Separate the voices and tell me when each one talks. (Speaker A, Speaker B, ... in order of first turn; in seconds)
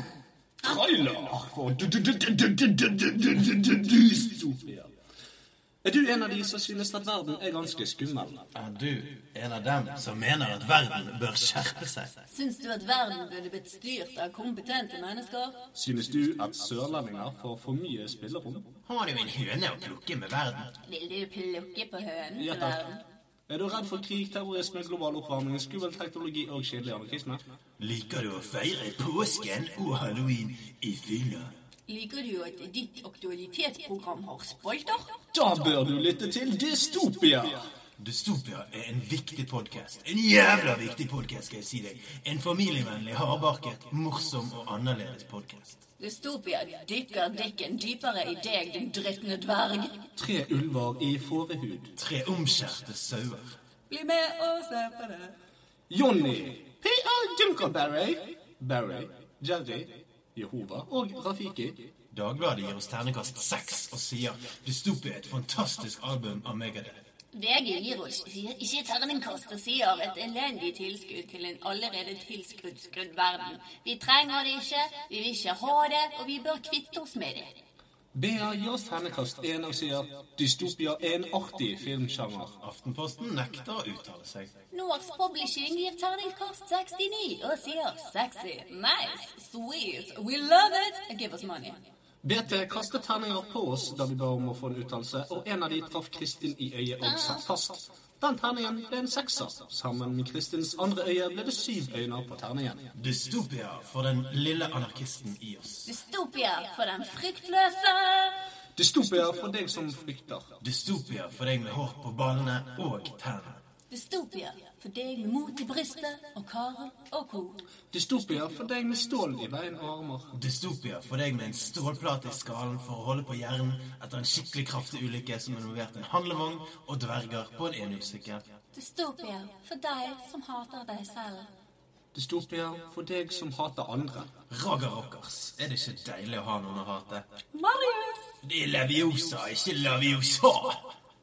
Speaker A: 0.6-4.9, 5.8-8.4, 15.7-18.7, 22.4-22.8, 23.5-27.4, 35.3-37.7, 50.1-52.0, 55.9-61.9, 78.1-82.6, 92.2-102.9, 108.8-110.5, 117.9-120.3, 132.1-134.3
Speaker B: 8.5-12.1, 18.9-20.8, 27.8-31.5, 38.0-45.8, 52.0-53.5, 62.1-67.0, 82.6-84.5, 102.9-105.9, 110.6-113.6, 120.3-128.4, 134.5-137.2, 138.4-140.9
Speaker C: 12.3-15.6, 20.8-23.0, 31.9-35.1, 46.0-50.1, 53.9-55.3, 67.3-77.6, 84.7-91.8, 105.8-108.4, 113.9-117.6, 128.7-131.5, 137.5-138.4